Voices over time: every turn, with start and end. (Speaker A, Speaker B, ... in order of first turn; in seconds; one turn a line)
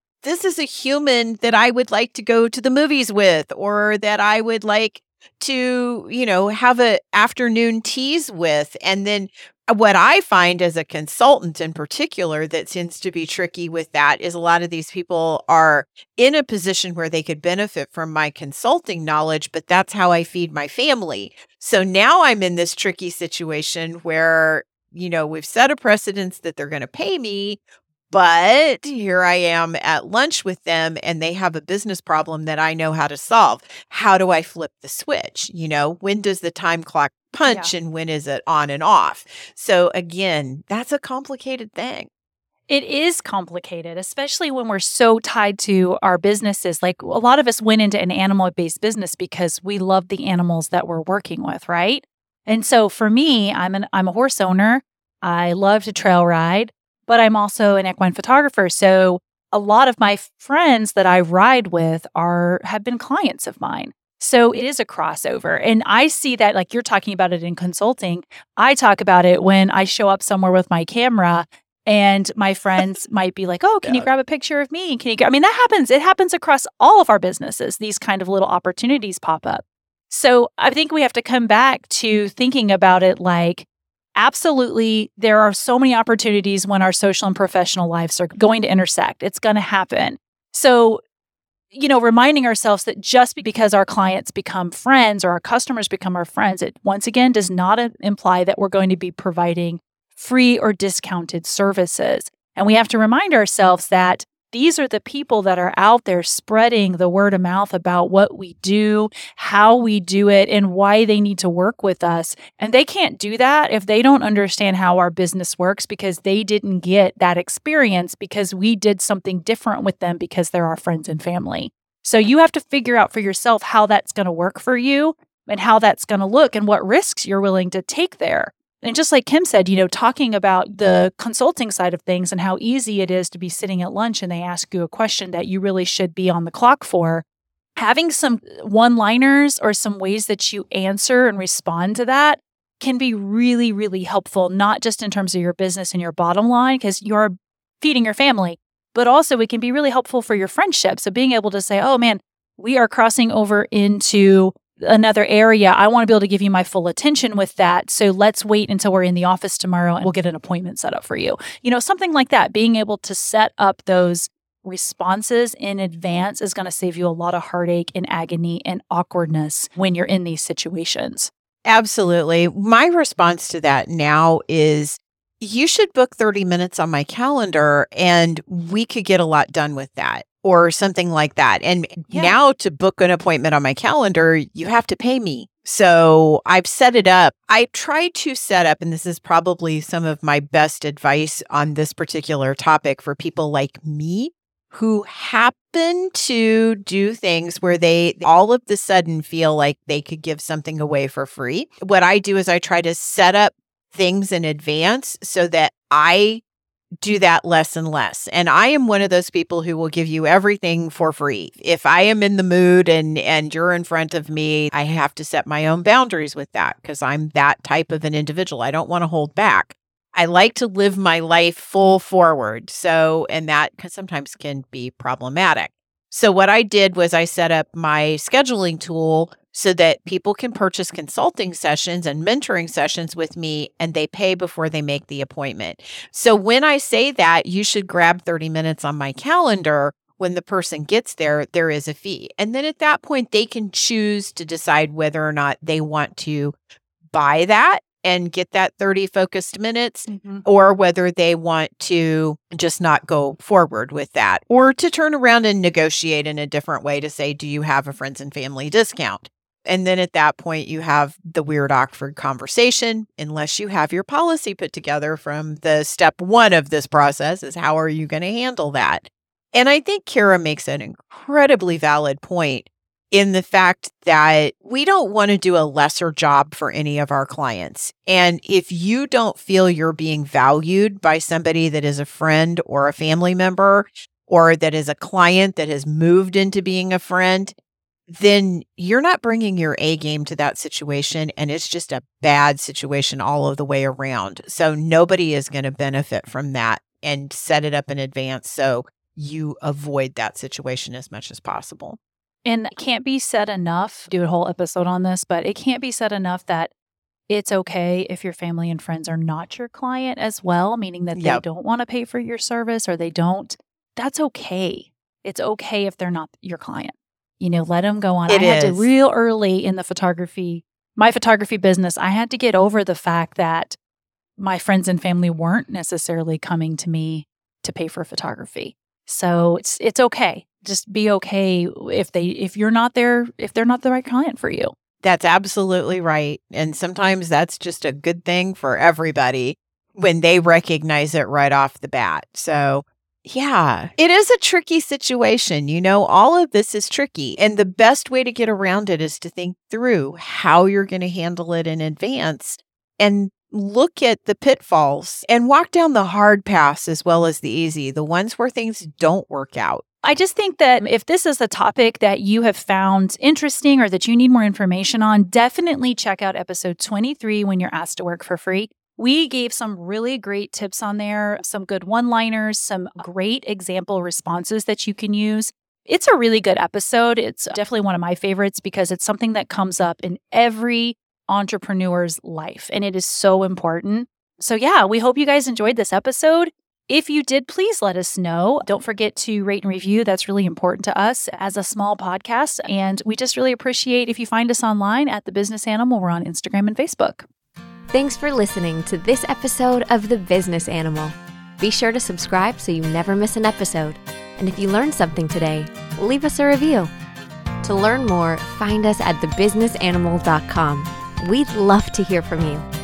Speaker A: 0.2-27.6
Speaker A: 28.1-42.1
Speaker B: 37.5-37.7
Speaker B: 42.7-83.7
Speaker A: 73.8-74.1
Speaker B: 84.2-91.0
Speaker B: 91.7-137.2
Speaker B: 137.8-171.3
Speaker A: 171.7-206.4
Speaker B: 182.1-182.4
Speaker A: 207.0-246.6
Speaker A: 247.1-287.6
Speaker B: 250.1-250.4
Speaker A: 288.1-302.0
Speaker B: 302.4-306.7
Speaker B: 307.3-323.8
Speaker A: 311.1-311.4
Speaker A: 318.3-318.9
Speaker B: 324.4-334.7
Speaker A: 335.0-359.8
Speaker B: 360.0-397.3
Speaker C: 397.9-406.9
Speaker C: 407.6-412.6